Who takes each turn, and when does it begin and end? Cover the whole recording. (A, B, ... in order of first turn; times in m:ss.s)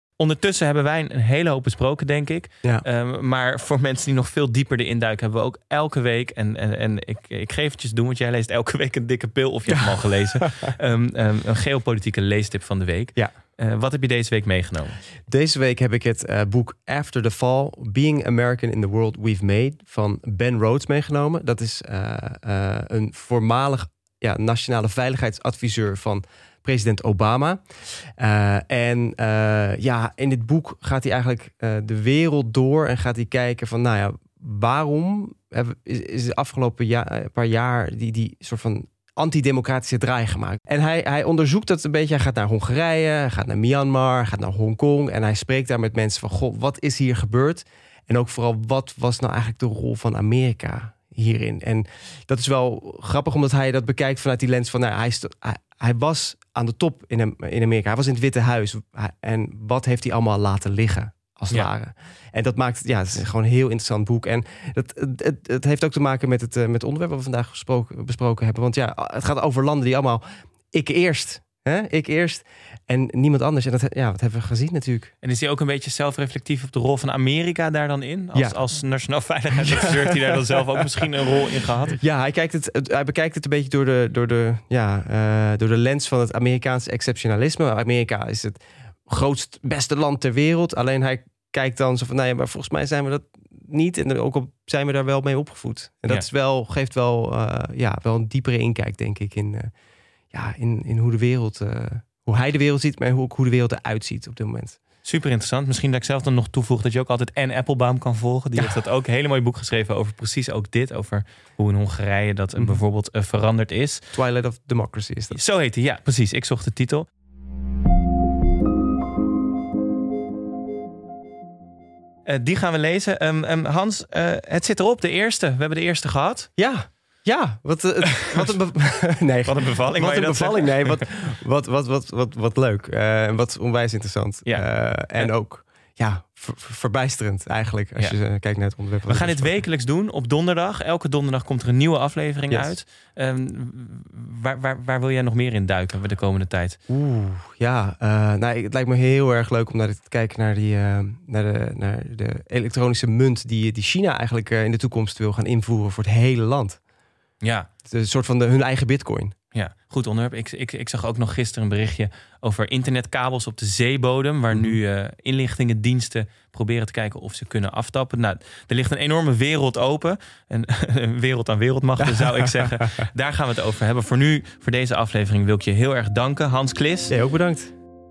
0:00.2-0:15.0 A
0:15.3-1:15.1 B
1:15.2-1:22.0 A
1:18.3-1:18.6 B
1:19.7-1:20.4 B
1:22.0-1:39.7 B
1:40.3-1:44.8 B
1:45.0-1:54.1 A
1:54.1-1:55.4 B
1:55.3-1:57.1 A
2:02.3-2:06.5 A
2:06.6-2:19.6 B
2:09.4-2:11.1 A
2:14.4-2:15.3 A
2:19.1-2:26.8 A
2:26.9-2:36.8 B
2:37.4-2:37.7 A
2:37.8-2:39.4 B
2:39.5-2:57.2 A
2:44.5-2:44.8 B
2:52.0-2:53.0 B
2:57.1-2:57.7 B